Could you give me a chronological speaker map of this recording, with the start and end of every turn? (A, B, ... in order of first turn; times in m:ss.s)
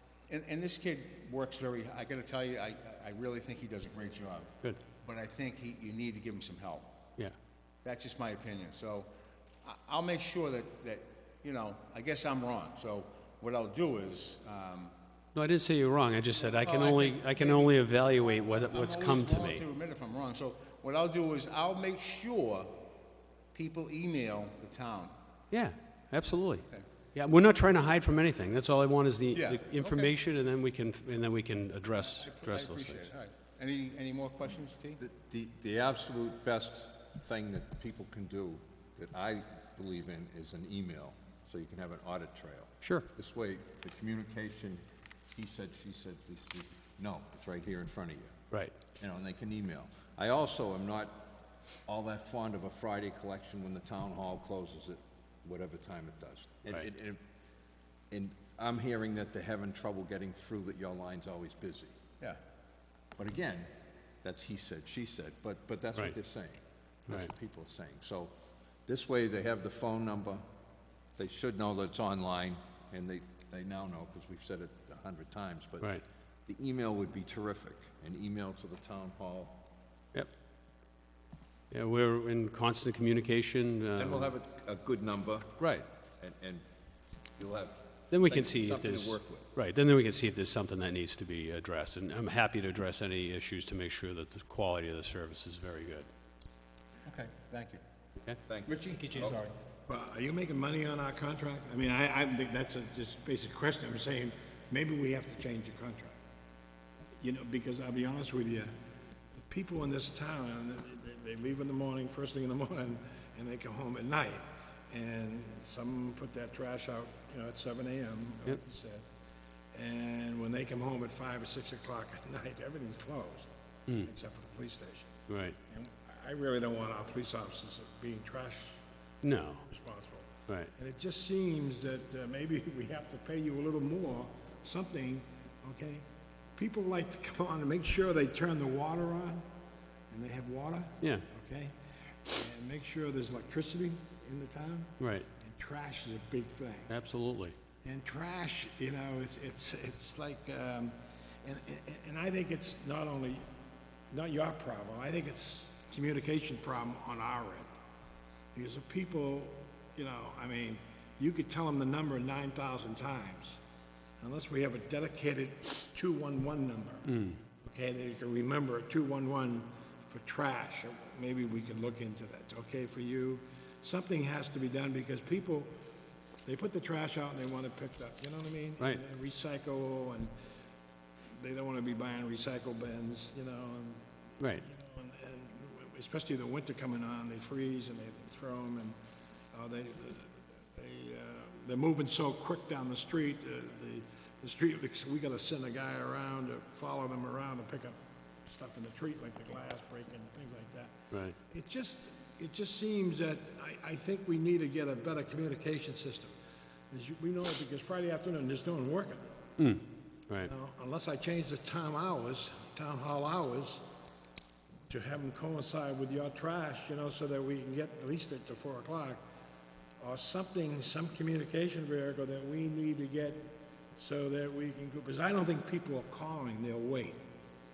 0:00.3-0:06.9 A
0:07.8-0:09.1 A
0:09.6-0:14.9 A
0:15.4-0:19.6 B
0:16.4-0:22.8 A
0:23.5-0:25.2 A
0:25.5-0:33.1 B
0:29.3-0:30.1 A
0:32.0-0:35.0 A
0:35.0-0:44.8 C
0:42.8-0:43.1 B
0:45.3-0:48.4 C
0:49.0-0:51.3 C
0:51.9-0:57.2 C
0:58.1-1:02.0 C
1:03.2-1:03.7 C
1:04.2-1:08.3 C
1:08.9-1:10.4 C
1:11.2-1:15.9 C
1:16.5-1:19.6 C
1:21.7-1:24.3 B
1:24.0-1:26.6 C
1:25.6-1:25.8 B
1:27.4-1:29.5 C
1:28.1-1:36.1 B
1:37.1-1:37.8 A
1:38.5-1:39.4 C
1:38.7-1:39.6 A
1:39.9-1:46.2 D
1:47.2-1:48.7 D
1:49.4-1:59.0 D
1:59.7-2:05.1 D
2:05.3-2:05.6 B
2:05.7-2:08.8 D
2:09.2-2:09.6 B
2:09.7-2:16.0 D
2:16.6-2:19.4 D
2:20.1-2:21.7 D
2:22.3-2:26.9 D
2:25.0-2:25.3 B
2:26.9-2:27.6 B
2:27.8-2:33.4 D
2:34.1-2:37.7 D
2:38.6-2:43.6 D
2:44.2-2:47.1 D
2:47.1-2:47.4 B
2:47.6-2:55.7 D
2:56.5-3:00.3 D
3:01.4-3:09.0 D
3:09.5-3:26.3 D
3:26.9-3:29.3 D
3:29.6-3:30.5 B
3:30.4-3:33.8 D
3:34.9-3:39.2 D
3:40.0-3:47.2 D